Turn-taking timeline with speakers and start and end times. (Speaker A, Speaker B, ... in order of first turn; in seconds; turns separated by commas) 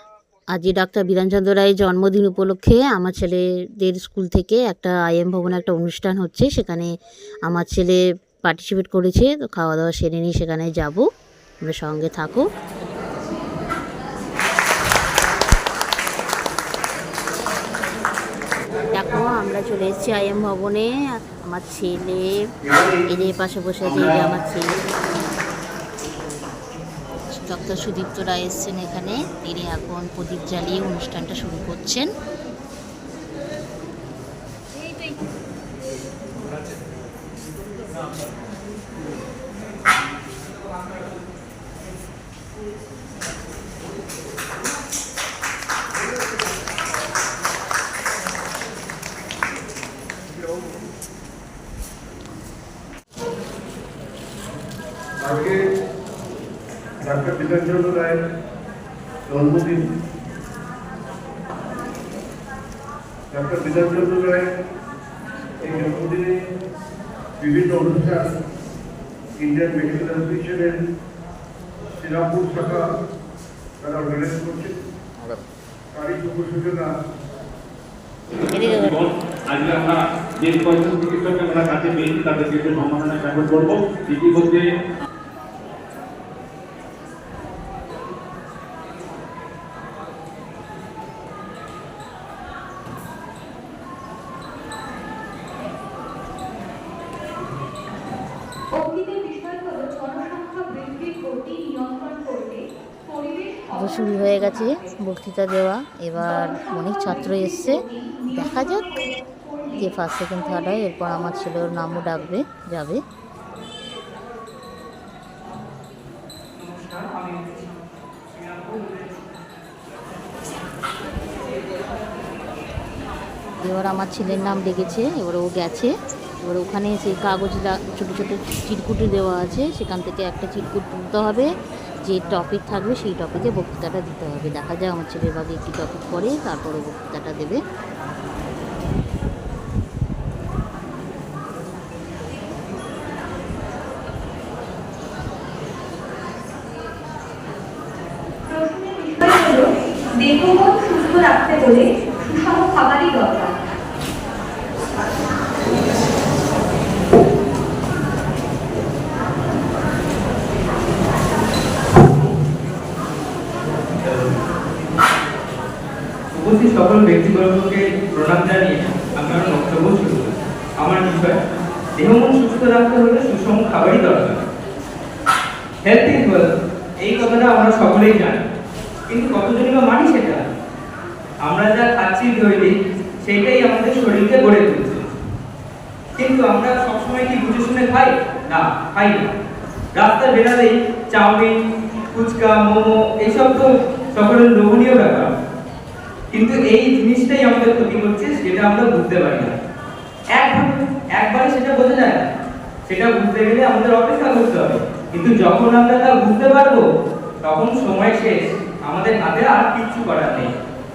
Speaker A: 0.5-6.9, Speaker A: 7.5-11.1, Speaker A: 11.6-12.4, Speaker A: 18.9-22.5, Speaker A: 23.1-24.7, Speaker B: 23.9-24.2, Speaker A: 27.3-32.1, Speaker C: 55.2-55.7, Speaker C: 57.0-58.2, Speaker C: 59.3-59.9, Speaker C: 63.3-64.5, Speaker C: 65.6-66.3, Speaker C: 67.4-68.3, Speaker C: 69.4-70.8, Speaker C: 72.0-72.9, Speaker C: 73.8-74.8, Speaker C: 75.9-76.9, Speaker B: 78.5-84.6, Speaker A: 78.5-79.0, Speaker D: 98.7-104.9, Speaker A: 103.8-108.8, Speaker D: 106.1-112.1, Speaker A: 109.8-113.0, Speaker E: 116.6-117.6, Speaker E: 118.4-119.0, Speaker A: 123.6-131.5, Speaker A: 132.0-137.6, Speaker D: 148.5-153.6, Speaker E: 166.3-171.4, Speaker E: 172.0-174.4, Speaker E: 175.8-178.4, Speaker E: 179.1-180.5, Speaker E: 181.4-185.1, Speaker E: 186.2-189.3, Speaker E: 189.9-191.6, Speaker E: 192.1-195.3, Speaker E: 196.3-199.6, Speaker E: 200.3-202.3, Speaker E: 202.9-206.9, Speaker E: 207.4-210.5